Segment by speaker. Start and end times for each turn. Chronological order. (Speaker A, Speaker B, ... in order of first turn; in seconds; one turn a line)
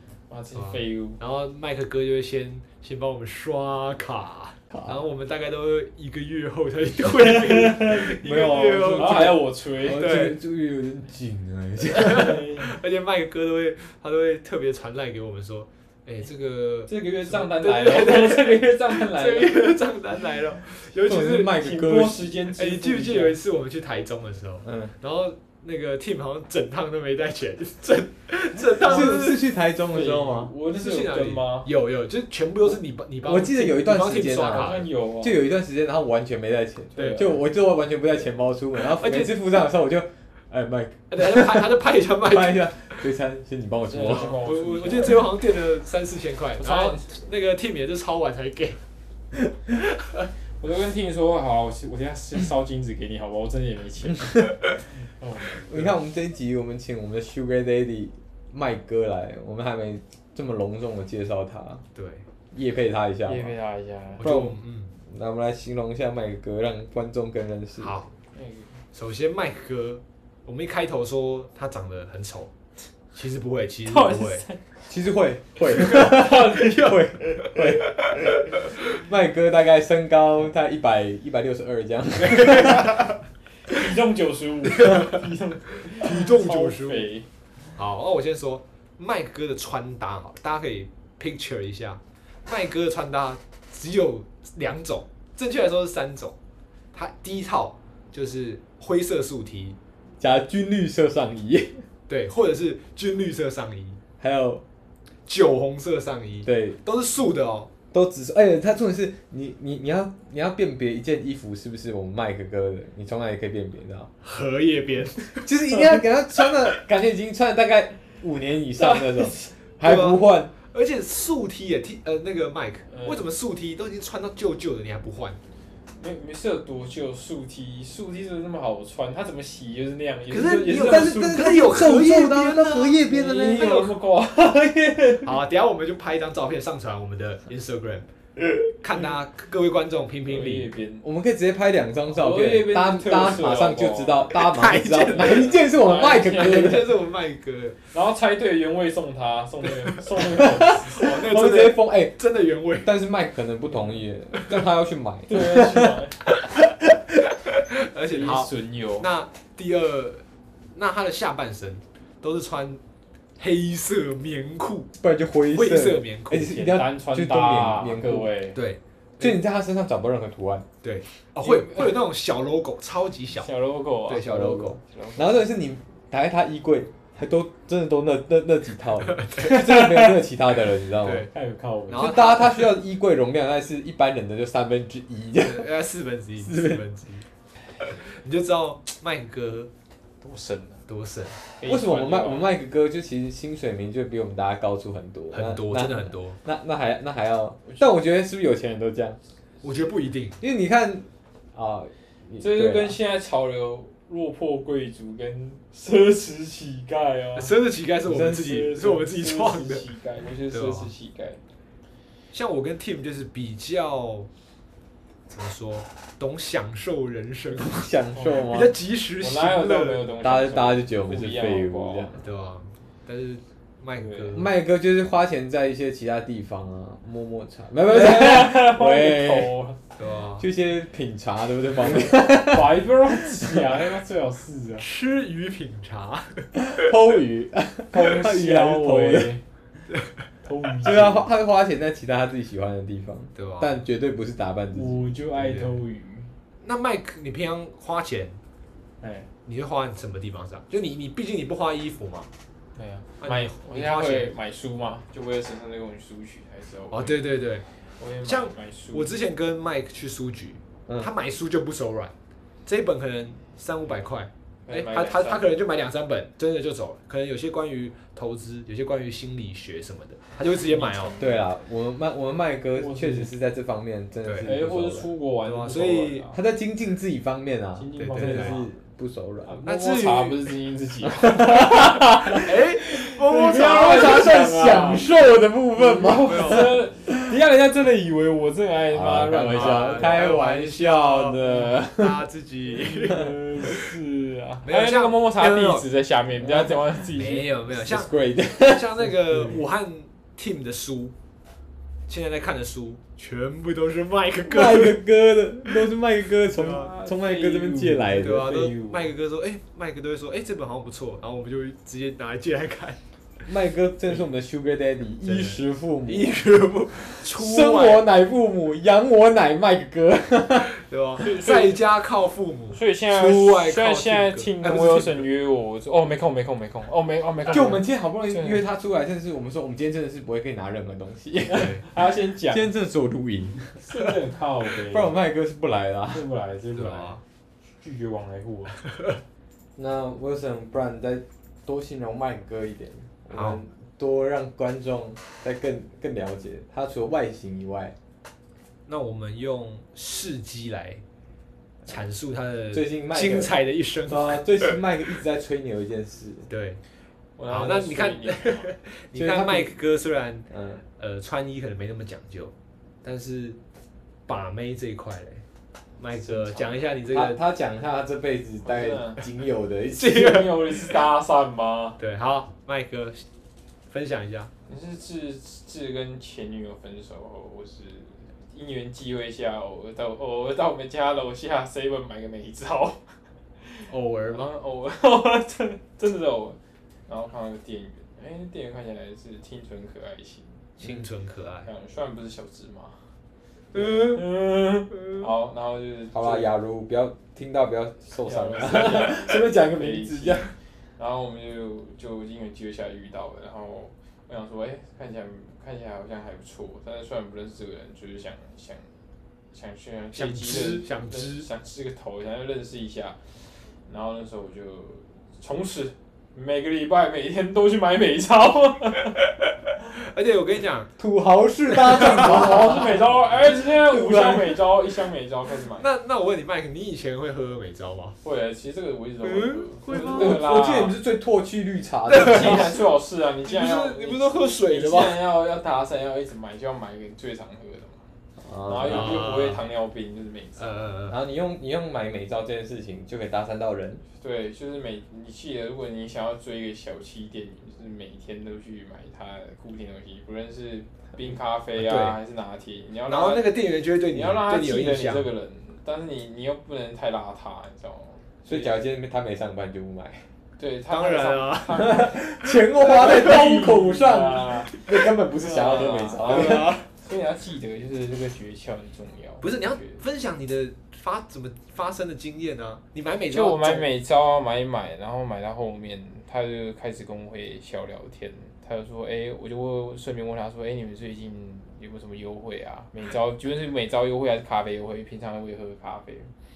Speaker A: 0.3-1.2
Speaker B: 0.5-10.4
Speaker A: 7.2-8.2
Speaker C: 8.1-12.6
Speaker A: 8.9-10.2
Speaker B: 11.9-21.6
Speaker A: 12.1-12.7
Speaker A: 16.9-19.8
Speaker C: 21.0-22.4
Speaker A: 21.4-23.4
Speaker B: 22.6-29.4
Speaker C: 24.6-24.9
Speaker C: 28.8-30.5
Speaker A: 28.8-31.7
Speaker B: 30.7-34.9
Speaker C: 33.2-44.4
Speaker A: 34.4-35.4
Speaker B: 37.0-37.3
Speaker A: 37.0-37.3
Speaker B: 39.0-39.4
Speaker B: 41.1-43.0
Speaker A: 43.8-45.3
Speaker B: 44.0-48.8
Speaker A: 46.6-47.1
Speaker A: 50.6-56.0
Speaker C: 55.6-61.8
Speaker B: 62.0-62.3
Speaker C: 62.5-63.5
Speaker A: 63.3-64.4
Speaker B: 64.2-65.0
Speaker C: 64.2-68.0
Speaker B: 67.8-68.1
Speaker A: 68.3-68.8
Speaker B: 68.9-72.5
Speaker B: 73.1-74.4
Speaker A: 73.9-74.6
Speaker C: 74.9-83.0
Speaker A: 75.6-77.0
Speaker A: 82.5-82.9
Speaker A: 83.7-87.3
Speaker B: 84.8-85.2
Speaker B: 85.9-87.1
Speaker B: 87.8-96.4
Speaker B: 96.9-99.8
Speaker C: 100.2-101.9
Speaker B: 102.1-104.0
Speaker C: 104.2-104.6
Speaker B: 105.3-107.7
Speaker C: 106.5-106.8
Speaker C: 107.9-114.1
Speaker B: 114.2-115.5
Speaker C: 115.4-120.5
Speaker A: 118.8-119.5
Speaker B: 119.8-125.4
Speaker A: 122.9-123.2
Speaker A: 126.0-131.9
Speaker B: 130.3-133.9
Speaker C: 130.7-133.9
Speaker A: 133.0-135.3
Speaker B: 135.2-138.1
Speaker B: 138.8-140.7
Speaker A: 140.3-141.0
Speaker C: 141.0-146.9
Speaker A: 142.1-144.3
Speaker B: 144.3-147.8
Speaker A: 145.1-146.9
Speaker A: 147.9-151.1
Speaker B: 149.7-150.0
Speaker C: 150.3-152.2
Speaker B: 150.7-152.9
Speaker C: 152.8-156.0
Speaker A: 155.3-156.2
Speaker B: 157.7-162.8
Speaker A: 158.1-159.1
Speaker B: 163.4-164.9
Speaker C: 165.0-168.3
Speaker B: 165.5-166.6
Speaker A: 166.4-168.6
Speaker B: 168.5-169.4
Speaker C: 169.2-170.7
Speaker B: 170.8-173.5
Speaker A: 171.4-172.0
Speaker A: 173.4-175.3
Speaker B: 174.1-174.8
Speaker C: 174.2-181.3
Speaker B: 179.1-179.6
Speaker A: 179.6-180.0
Speaker B: 181.0-181.3
Speaker A: 181.3-182.1
Speaker B: 181.9-182.8
Speaker C: 181.9-185.7
Speaker B: 185.4-187.3
Speaker C: 186.4-186.8
Speaker B: 187.8-189.7
Speaker A: 190.2-190.8
Speaker B: 190.9-191.4
Speaker A: 191.6-192.6
Speaker C: 191.6-199.2
Speaker B: 195.3-196.4
Speaker B: 199.6-200.4
Speaker C: 200.4-203.0
Speaker A: 202.4-207.5
Speaker B: 207.3-209.9
Speaker A: 208.1-211.4
Speaker C: 208.1-208.7
Speaker B: 210.5-210.9
Speaker B: 212.3-214.3
Speaker B: 215.3-220.1
Speaker C: 217.6-218.7
Speaker A: 218.2-218.5
Speaker A: 219.2-222.2
Speaker C: 220.2-222.2
Speaker B: 222.2-224.5
Speaker A: 224.0-224.5
Speaker C: 224.3-229.6
Speaker A: 227.9-229.8
Speaker B: 230.0-230.5
Speaker C: 230.4-233.9
Speaker A: 231.8-234.9
Speaker B: 234.8-236.5
Speaker C: 236.6-239.4
Speaker A: 237.9-239.4
Speaker A: 240.4-241.3
Speaker C: 240.8-245.0
Speaker B: 243.3-243.8
Speaker A: 244.7-246.3
Speaker B: 245.4-245.8
Speaker B: 246.6-248.4
Speaker A: 249.0-249.3
Speaker B: 249.4-252.3
Speaker A: 252.8-257.3
Speaker B: 253.2-254.3
Speaker B: 256.9-257.6
Speaker A: 258.0-259.1
Speaker B: 258.2-262.1
Speaker B: 262.6-271.2
Speaker A: 264.7-265.5
Speaker A: 270.7-271.4
Speaker C: 271.2-275.1
Speaker A: 272.8-273.3
Speaker B: 274.2-274.5
Speaker A: 274.4-276.4
Speaker B: 275.4-276.3
Speaker C: 276.3-279.6
Speaker A: 277.8-278.7
Speaker B: 278.0-278.6
Speaker A: 279.4-282.5
Speaker B: 279.6-280.4
Speaker C: 281.2-282.5
Speaker B: 282.3-284.4
Speaker C: 283.0-287.4
Speaker A: 283.3-285.1
Speaker A: 285.8-290.2
Speaker B: 286.2-286.8
Speaker C: 288.9-292.3
Speaker B: 289.5-293.3
Speaker A: 292.8-297.6
Speaker B: 294.6-295.9
Speaker C: 296.4-296.9
Speaker B: 297.1-301.1
Speaker C: 297.8-299.5
Speaker B: 302.1-305.0
Speaker C: 304.5-308.7
Speaker A: 306.5-309.1
Speaker B: 308.2-313.0
Speaker C: 313.4-316.4
Speaker B: 315.2-318.1
Speaker C: 317.0-320.7
Speaker B: 320.7-325.3
Speaker A: 321.2-321.8
Speaker A: 322.7-328.6
Speaker C: 327.5-331.9
Speaker A: 331.5-332.7
Speaker B: 331.5-331.8
Speaker C: 332.5-333.7
Speaker A: 333.8-335.2
Speaker C: 334.7-336.3
Speaker A: 336.1-337.2
Speaker B: 336.7-337.2
Speaker A: 337.8-338.8
Speaker B: 338.9-339.1
Speaker C: 339.8-347.9
Speaker B: 343.3-343.6
Speaker B: 348.9-351.0
Speaker B: 351.9-354.8
Speaker C: 352.7-353.5
Speaker C: 354.1-356.5
Speaker B: 356.5-356.8
Speaker A: 357.4-358.7
Speaker B: 357.5-363.6
Speaker C: 359.1-359.8
Speaker C: 360.5-360.8
Speaker B: 364.3-365.4
Speaker B: 366.0-367.4
Speaker C: 367.1-370.3
Speaker A: 368.6-369.3
Speaker B: 369.9-370.9
Speaker A: 370.0-372.0
Speaker B: 372.0-373.3
Speaker B: 373.9-374.5
Speaker A: 374.7-383.0
Speaker A: 383.6-390.7
Speaker B: 383.9-384.5
Speaker B: 390.8-391.7
Speaker A: 391.7-393.0
Speaker B: 393.7-394.2
Speaker A: 393.8-396.6
Speaker C: 396.1-400.5
Speaker A: 398.2-408.9
Speaker A: 409.5-413.2
Speaker B: 410.1-411.5
Speaker A: 413.9-419.2
Speaker B: 419.9-421.0
Speaker C: 421.0-424.6
Speaker B: 421.7-422.5
Speaker A: 421.7-425.9
Speaker B: 425.8-428.2
Speaker A: 428.2-431.0
Speaker B: 429.2-430.6
Speaker C: 429.9-432.8
Speaker B: 432.1-432.8
Speaker A: 432.1-438.0
Speaker B: 433.4-435.2
Speaker C: 438.4-439.3
Speaker A: 438.6-440.8
Speaker B: 438.8-439.6
Speaker B: 440.6-441.2
Speaker C: 441.1-444.0
Speaker A: 444.2-458.7
Speaker B: 451.8-452.2
Speaker B: 453.1-455.3
Speaker C: 458.4-460.3
Speaker A: 460.6-470.0
Speaker B: 460.9-462.0
Speaker C: 461.8-466.7
Speaker B: 462.8-463.3
Speaker B: 466.2-466.9
Speaker B: 469.4-473.9
Speaker A: 473.3-486.3